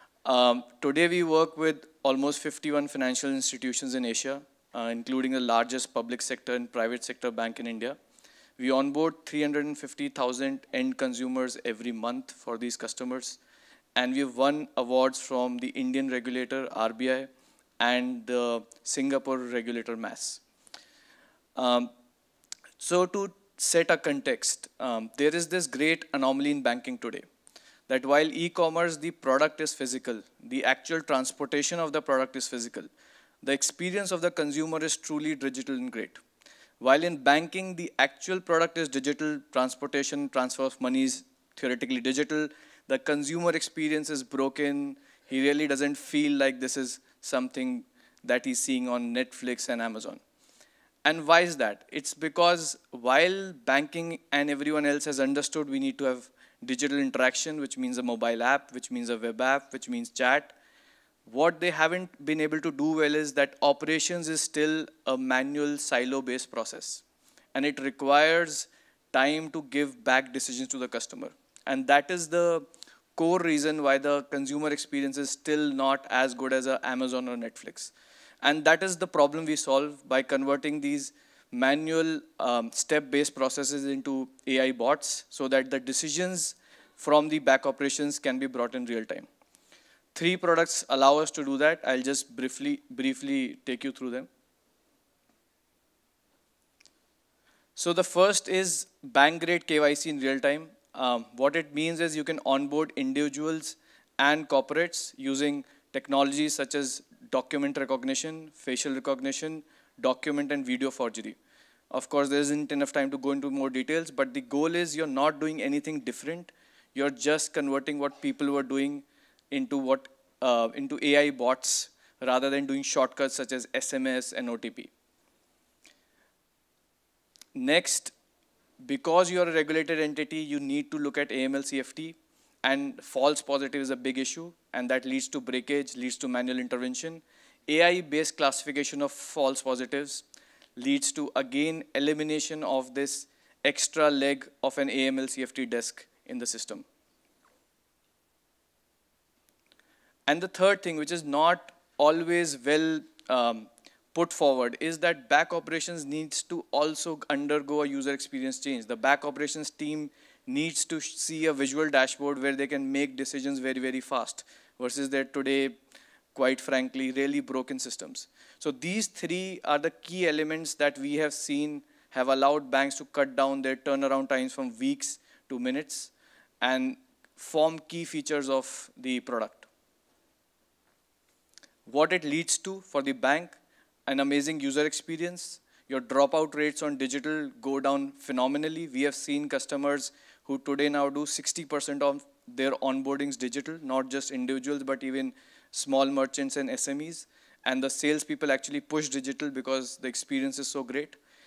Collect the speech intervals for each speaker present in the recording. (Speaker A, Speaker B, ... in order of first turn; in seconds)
Speaker A: 0.2-8.0, 8.6-13.4, 13.9-17.3, 17.8-20.4, 21.6-21.9, 22.8-27.2, 27.9-32.9, 33.4-36.2, 36.8-50.2, 51.0-60.5, 61.3-67.0, 67.5-89.3, 90.1-94.3, 97.8-111.4, 111.9-124.9, 127.5-128.1, 128.8-140.2, 140.8-146.8, 150.3-165.8, 166.3-179.7, 181.9-183.6, 184.1-201.2